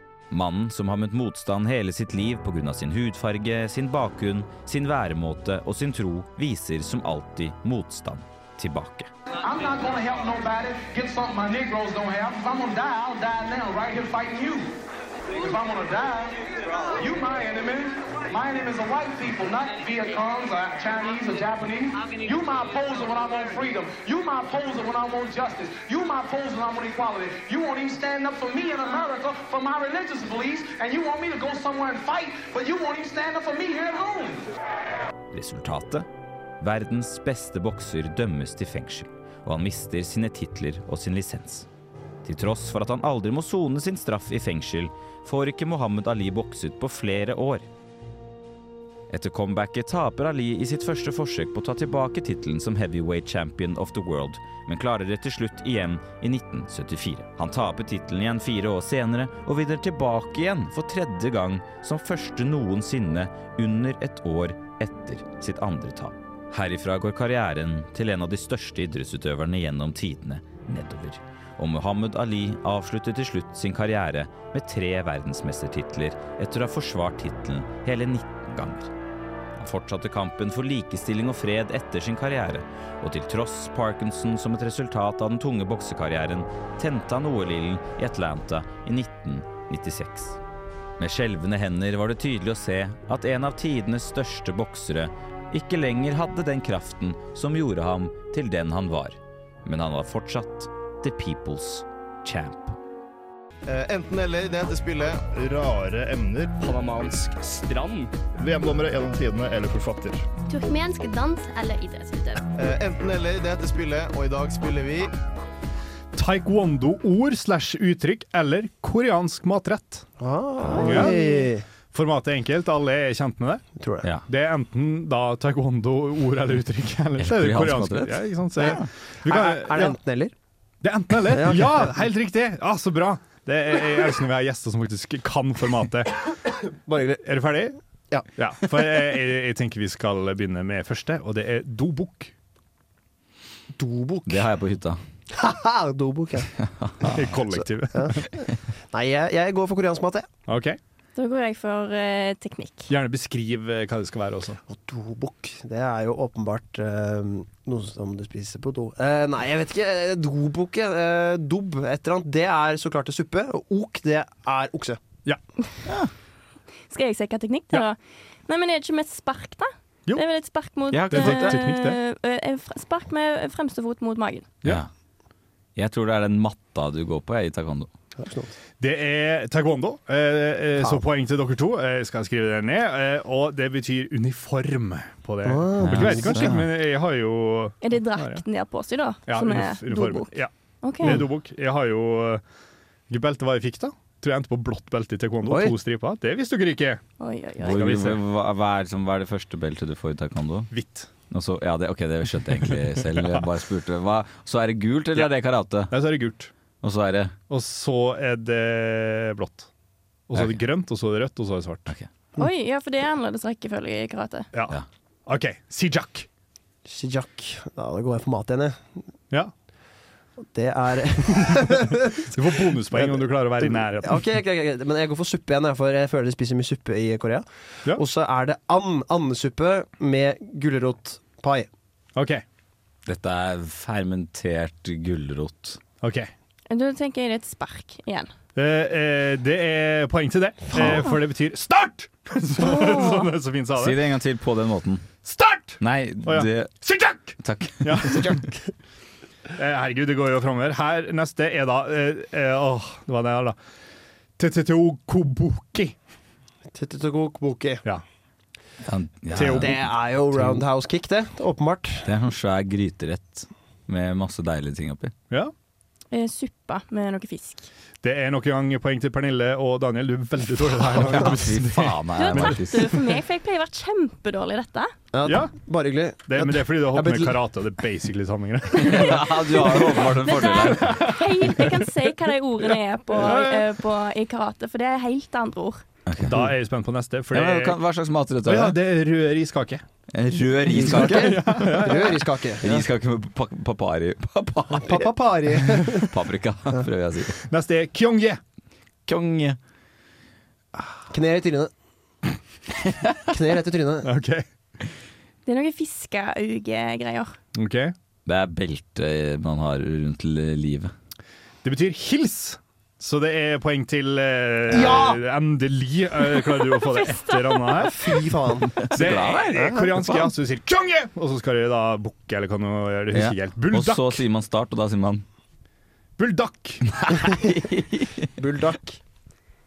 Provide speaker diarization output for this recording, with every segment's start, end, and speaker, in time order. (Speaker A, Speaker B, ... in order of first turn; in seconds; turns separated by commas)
Speaker A: 0.3-9.1, Speaker B: 9.4-14.8, Speaker B: 15.4-16.4, Speaker B: 16.9-34.5, Speaker A: 35.3-36.1, Speaker A: 36.6-41.7, Speaker A: 42.2-47.7, Speaker A: 49.1-78.9, Speaker A: 79.6-90.4, Speaker A: 91.0-102.8, Speaker C: 103.7-108.0, Speaker C: 108.7-109.4, Speaker D: 110.5-112.4, Speaker C: 112.6-115.1, Speaker E: 116.1-120.0, Speaker F: 120.2-121.7, Speaker E: 120.8-121.2, Speaker E: 121.9-123.6, Speaker F: 123.8-124.0, Speaker E: 124.2-129.9, Speaker A: 127.2-128.9, Speaker F: 129.2-130.3, Speaker E: 130.8-136.1, Speaker F: 131.3-131.9, Speaker F: 136.9-137.4, Speaker E: 137.2-137.8, Speaker E: 138.4-142.3, Speaker F: 143.8-144.4, Speaker A: 144.2-145.0, Speaker F: 145.3-146.5, Speaker A: 146.6-147.3, Speaker E: 147.0-148.3, Speaker F: 147.5-150.3, Speaker E: 150.5-150.8, Speaker G: 151.2-152.9, Speaker E: 152.9-154.6, Speaker F: 154.7-165.0, Speaker A: 165.9-166.1, Speaker G: 166.9-168.0, Speaker G: 168.5-174.5, Speaker A: 170.9-171.6, Speaker E: 171.1-172.0, Speaker A: 174.6-174.9, Speaker A: 175.8-177.9, Speaker F: 178.2-178.5, Speaker E: 178.8-188.4, Speaker F: 180.8-181.0, Speaker F: 185.4-186.6, Speaker A: 185.8-186.7, Speaker G: 187.8-191.2, Speaker E: 189.3-192.4, Speaker E: 193.1-197.0, Speaker F: 195.5-195.7, Speaker G: 197.2-197.8, Speaker A: 197.6-200.7, Speaker E: 197.6-198.2, Speaker E: 200.7-201.1, Speaker A: 201.3-205.9, Speaker E: 203.1-203.4, Speaker E: 205.9-206.5, Speaker A: 206.8-207.3, Speaker E: 207.5-209.7, Speaker E: 210.3-211.9, Speaker A: 210.3-210.6, Speaker G: 212.4-214.5, Speaker E: 214.5-216.3, Speaker F: 216.9-218.9, Speaker F: 220.5-231.7, Speaker E: 222.3-224.2, Speaker E: 232.2-232.4, Speaker A: 233.1-235.8, Speaker E: 236.0-236.3, Speaker G: 236.7-238.3, Speaker E: 238.6-244.0, Speaker G: 242.6-243.3, Speaker A: 243.8-245.1, Speaker E: 245.2-248.4, Speaker A: 245.8-246.8, Speaker A: 247.4-248.3, Speaker E: 249.5-253.6, Speaker E: 254.4-255.9, Speaker F: 256.7-257.9, Speaker A: 258.8-259.9, Speaker E: 259.3-259.9, Speaker F: 259.4-262.1, Speaker A: 262.0-265.1, Speaker G: 266.1-267.7, Speaker E: 268.0-272.6, Speaker A: 270.8-273.0, Speaker G: 272.1-274.9, Speaker F: 275.1-277.4, Speaker E: 275.2-275.5, Speaker E: 276.3-279.3, Speaker A: 278.8-281.0, Speaker G: 280.1-285.8, Speaker E: 280.8-281.8, Speaker E: 283.1-283.7, Speaker A: 286.1-286.5, Speaker E: 286.2-287.8, Speaker A: 287.3-288.8, Speaker E: 288.4-289.8, Speaker A: 290.1-292.0, Speaker F: 290.7-292.9, Speaker E: 290.8-292.2, Speaker A: 292.6-295.1, Speaker F: 294.7-296.1, Speaker A: 296.1-297.4, Speaker E: 297.5-298.4, Speaker A: 299.1-299.6, Speaker F: 301.1-301.7, Speaker F: 303.3-304.1, Speaker E: 304.0-304.4, Speaker G: 305.4-307.4, Speaker E: 307.6-307.9, Speaker A: 308.2-310.9, Speaker E: 311.6-318.0, Speaker F: 314.7-315.2, Speaker G: 316.3-318.0, Speaker F: 317.8-318.7, Speaker A: 318.8-320.2, Speaker E: 318.9-324.2, Speaker F: 319.5-320.2, Speaker A: 323.1-325.2, Speaker E: 326.2-326.9, Speaker A: 326.9-328.3, Speaker F: 328.4-329.0